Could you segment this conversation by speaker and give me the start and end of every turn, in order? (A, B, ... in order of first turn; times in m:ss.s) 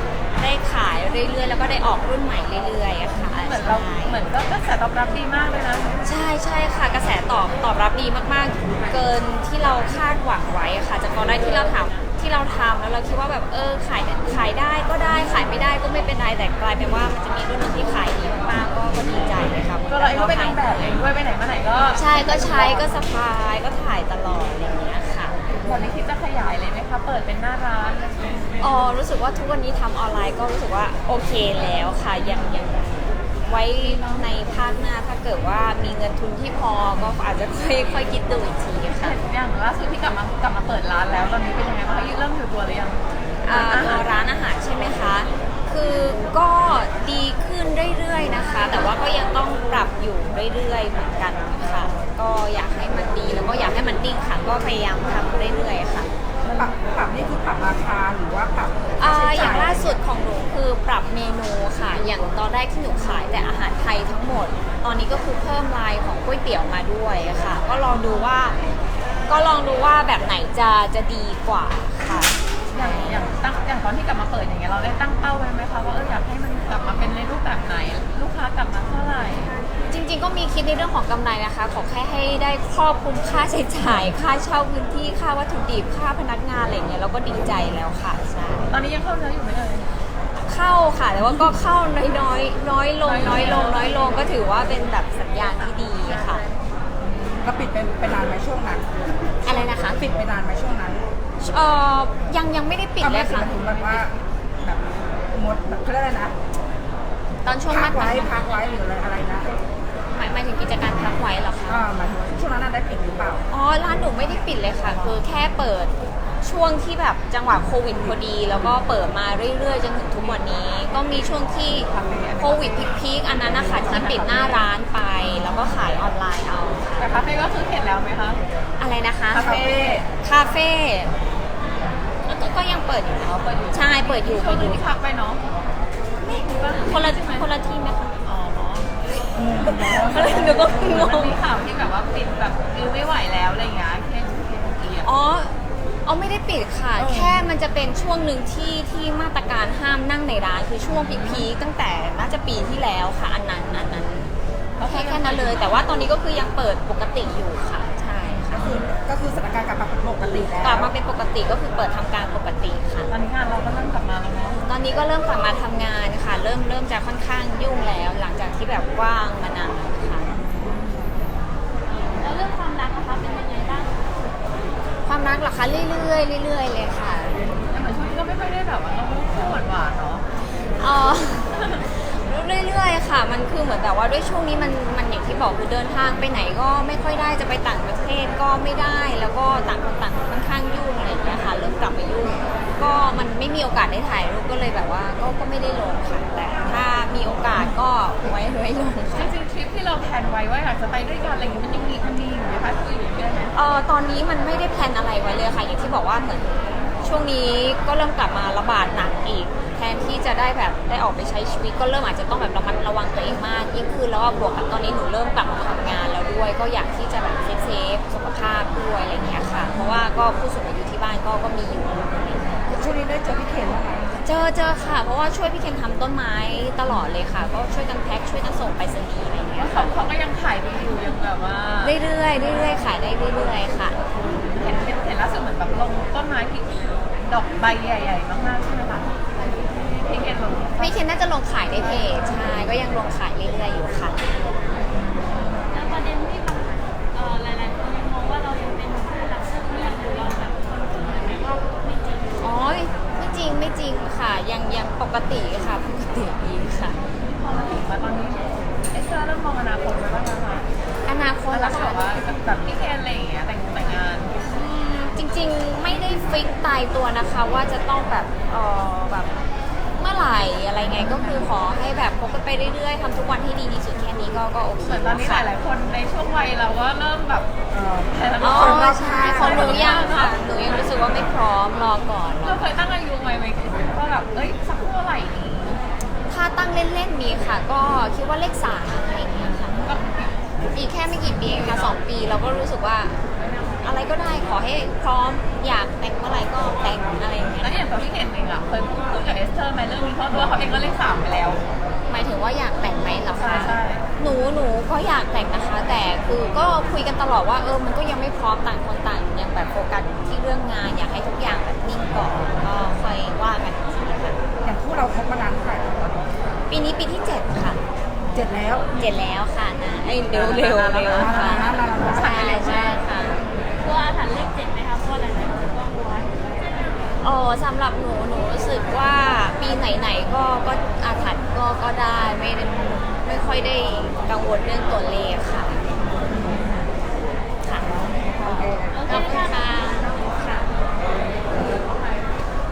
0:00.4-0:04.2 A
0:03.2-0:06.0 B
0:06.0-0:20.9 A
0:19.9-0:22.7 B
0:22.0-0:25.4 A
0:25.6-0:28.2 B
0:28.6-0:39.2 A
0:39.0-0:44.1 B
0:43.4-0:56.1 A
0:56.5-1:00.0 C
0:59.0-1:08.6 A
1:09.3-1:13.2 A
1:12.7-1:19.6 B
1:19.9-1:28.8 A
1:28.7-1:30.0 B
1:30.4-1:36.4 A
1:33.0-1:34.1 B
1:37.0-1:37.4 B
1:37.4-1:38.9 C
1:39.4-1:40.1 A
1:39.4-1:41.1 C
1:41.4-1:43.6 A
1:43.0-1:46.4 C
1:47.4-1:48.4 A
1:47.7-1:49.6 C
1:50.1-1:51.8 A
1:51.7-1:53.5 C
1:53.5-2:07.0 A
2:01.9-2:02.9 C
2:03.5-2:04.4 C
2:03.9-2:04.7 B
2:07.0-2:08.4 B
2:08.8-2:11.1 A
2:09.3-2:10.0 B
2:09.3-2:10.1 C
2:12.3-2:14.8 A
2:13.4-2:15.5 B
2:16.2-2:17.5 B
2:16.7-2:18.2 A
2:18.2-2:18.9 B
2:19.3-2:21.1 C
2:19.6-2:21.4 A
2:19.8-2:25.1 B
2:25.0-2:38.7 A
2:27.1-2:27.5 B
2:34.8-2:35.9 B
2:38.5-2:40.9 C
2:40.2-2:43.1 A
2:43.1-2:44.6 B
2:44.6-2:50.3 A
2:50.3-2:51.2 C
2:52.2-2:54.0 D
2:55.0-2:57.4 A
2:57.7-3:00.2 B
3:00.4-3:19.3 A
3:01.6-3:01.8 B
3:19.1-3:23.6 B
3:23.6-3:42.7 A
3:42.7-3:44.2 C
3:44.2-3:50.0 A
3:49.6-3:52.0 B
3:51.8-3:54.0 A
3:54.4-3:59.2 B
3:59.6-4:00.0 D
4:00.0-4:01.0 B
4:00.8-4:04.2 A
4:05.7-4:12.7 D
4:12.4-4:17.0 A
4:17.2-4:20.7 B
4:21.0-4:22.2 A
4:21.5-4:24.4 B
4:24.4-4:29.3 A
4:30.0-4:35.5 A
4:34.8-4:37.5 B
4:37.7-4:40.1 C
4:38.1-4:40.9 B
4:38.4-4:42.7 A
4:42.4-4:45.9 B
4:46.3-4:49.9 A
4:49.7-4:50.6 B
4:50.7-4:53.2 A
4:51.4-4:52.0 B
4:53.8-4:57.9 A
4:57.6-5:01.6 B
5:02.1-5:14.4 A
5:03.3-5:04.1 B
5:14.6-5:16.3 C
5:16.7-5:17.8 A
5:18.3-5:19.0 C
5:19.0-5:23.4 A
5:20.3-5:23.0 B
5:21.1-5:22.8 C
5:23.8-5:27.1 D
5:27.2-5:35.8 A
5:36.2-5:36.8 C
5:37.6-5:37.9 A
5:37.9-5:39.6 C
5:38.4-5:40.6 A
5:38.9-5:41.1 D